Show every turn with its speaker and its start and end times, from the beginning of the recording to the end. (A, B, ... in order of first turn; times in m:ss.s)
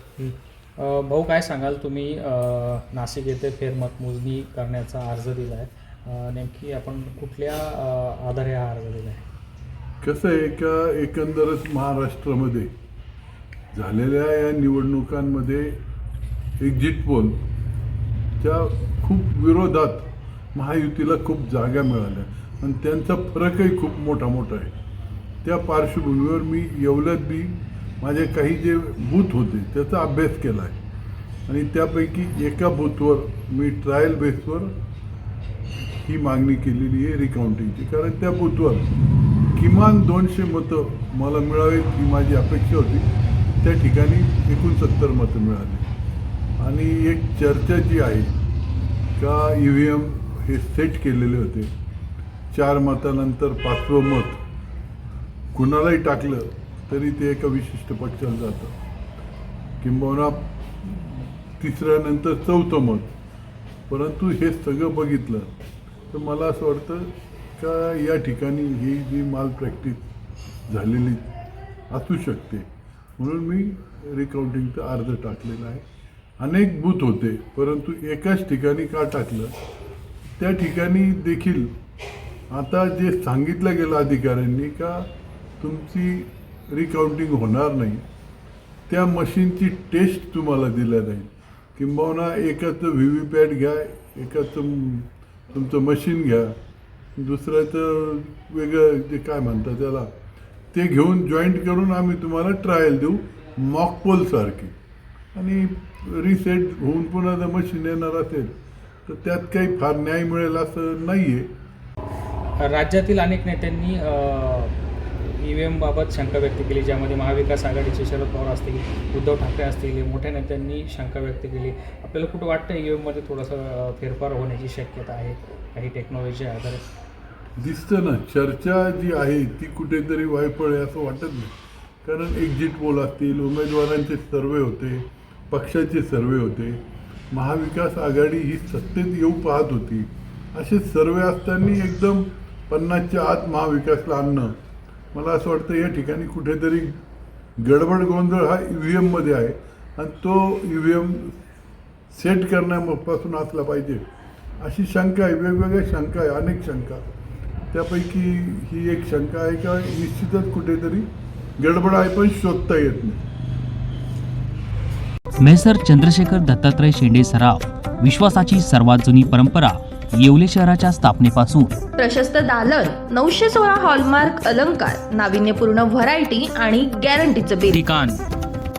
0:00.2-0:09.2 A
0:10.0-0:12.7 B
0:13.7-0:15.8 B
0:16.6-0:17.4 B
0:18.4-0:24.7 B
0:25.4-0:30.8 B
0:31.5-0:34.8 B
0:36.0-0:38.9 B
0:39.6-0:43.1 B
0:43.6-0:45.9 B
0:46.6-0:48.3 B
0:49.2-0:51.7 B
0:52.5-0:54.4 B
0:55.5-0:58.7 B
0:59.8-1:03.1 B
1:03.9-1:05.5 B
1:06.1-1:10.0 B
1:10.7-1:11.3 B
1:11.9-1:12.7 B
1:13.2-1:15.8 B
1:16.4-1:19.6 B
1:20.4-1:21.7 B
1:22.5-1:25.1 B
1:25.6-1:28.0 B
1:28.9-1:36.6 B
1:37.2-1:40.1 B
1:40.7-1:44.7 B
1:45.3-1:48.5 B
1:49.1-1:51.5 B
1:52.6-1:54.8 A
1:55.4-2:06.8 A
2:07.6-2:11.5 B
2:12.0-2:24.6 B
2:25.1-2:27.0 B
2:27.6-2:31.4 B
2:32.1-2:34.0 B
2:34.6-2:37.0 B
2:37.7-2:41.1 B
2:41.6-2:43.2 B
2:45.4-2:51.7 C
2:52.0-2:57.8 D
2:57.7-2:58.2 A